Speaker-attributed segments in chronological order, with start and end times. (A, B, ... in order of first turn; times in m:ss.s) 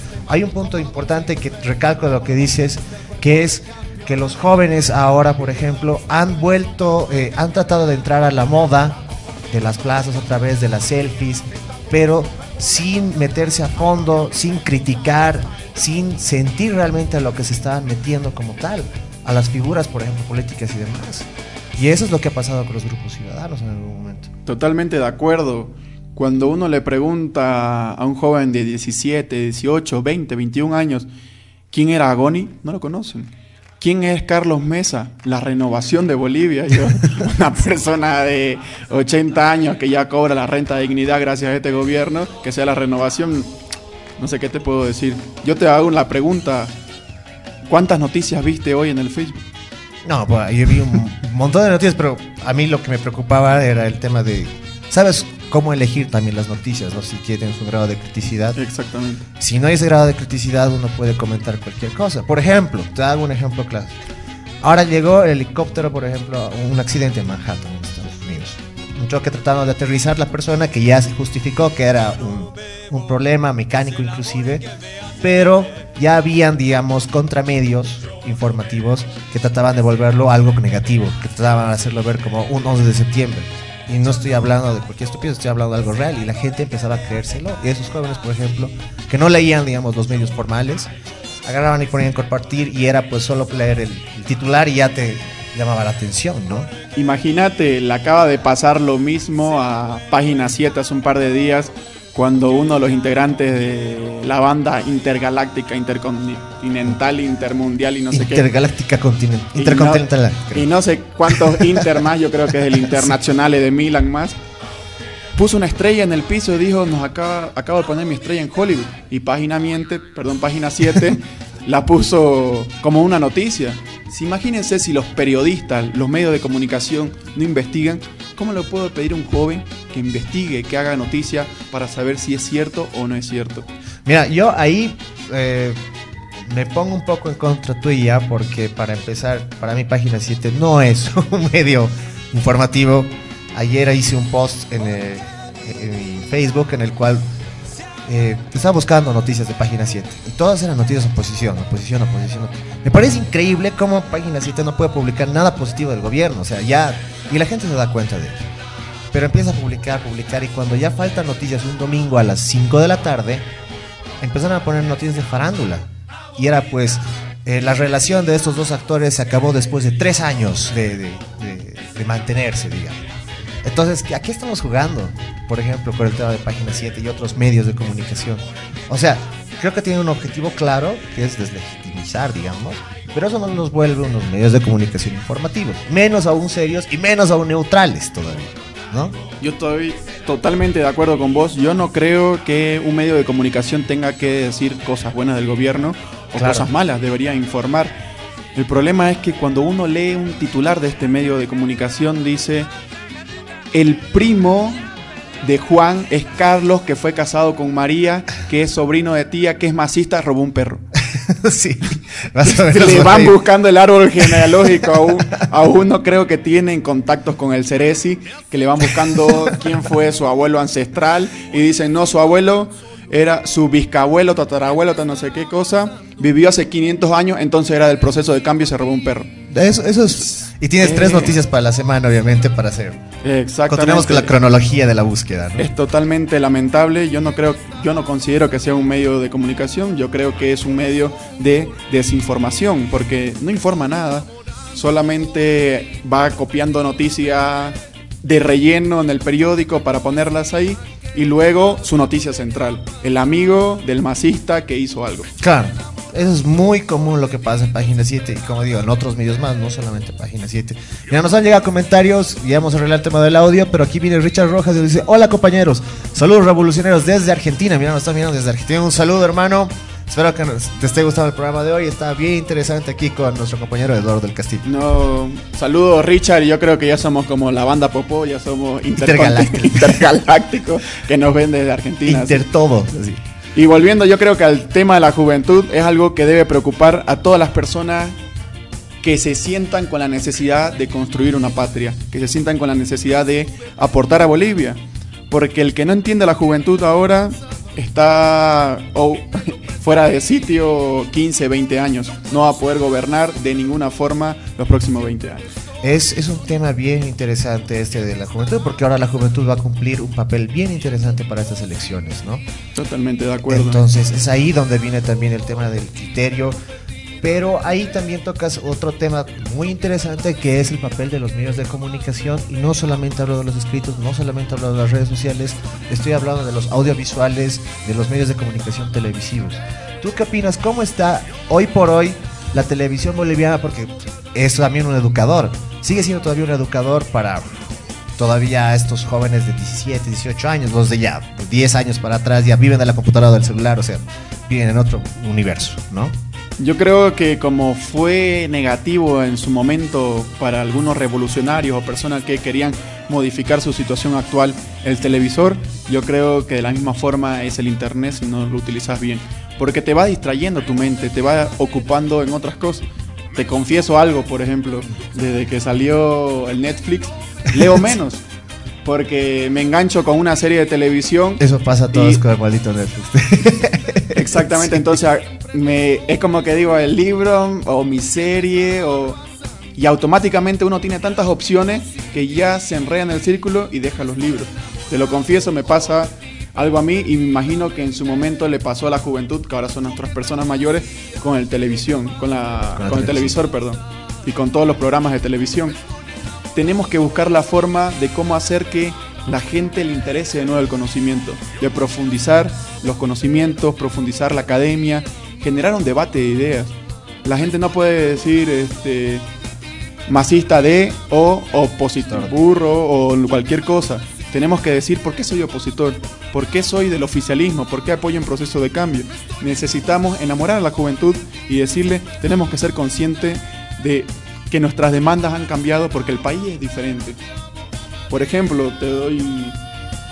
0:00.3-0:24.3 A
0:24.5-0:31.1 B
0:31.7-0:43.6 B
0:44.2-0:46.7 B
0:47.7-0:49.4 B
0:50.0-0:58.6 A
0:58.6-0:59.2 B
0:59.4-1:04.0 A
1:04.6-1:14.7 A
1:15.2-1:30.9 A
1:31.4-1:36.7 A
1:37.0-1:48.4 B
1:48.1-1:50.7 A
1:49.6-1:54.4 B
1:51.3-1:51.8 A
1:55.4-2:13.7 B
2:14.1-2:15.8 A
2:16.4-2:27.2 A
2:28.1-2:38.5 A
2:39.1-2:43.5 A
2:44.2-2:53.0 A
2:53.6-3:09.2 A
3:09.4-3:18.0 B
3:16.4-3:16.7 A
3:18.6-3:22.7 B
3:23.7-3:24.9 B
3:25.4-3:30.8 B
3:31.1-3:33.4 A
3:32.4-3:49.3 B
3:49.5-3:53.0 A
3:50.8-3:51.3 B
3:53.2-3:54.3 B
3:53.7-3:55.7 A
3:55.6-4:15.3 B
4:15.4-4:34.6 A
4:34.6-4:42.4 B
4:39.0-4:40.0 A
4:42.0-4:43.2 A
4:43.6-4:48.2 B
4:49.0-5:05.5 B
5:05.8-5:12.4 A
5:12.8-5:13.8 B
5:13.5-5:16.6 A
5:17.2-5:46.2 A
5:46.6-6:08.2 B
6:08.8-6:11.4 B
6:11.4-6:14.7 A
6:11.9-6:12.2 B
6:14.1-6:19.2 B
6:19.8-6:35.8 B
6:32.8-6:33.4 A
6:36.6-6:49.2 B
6:50.1-7:07.2 B
7:08.1-7:09.6 B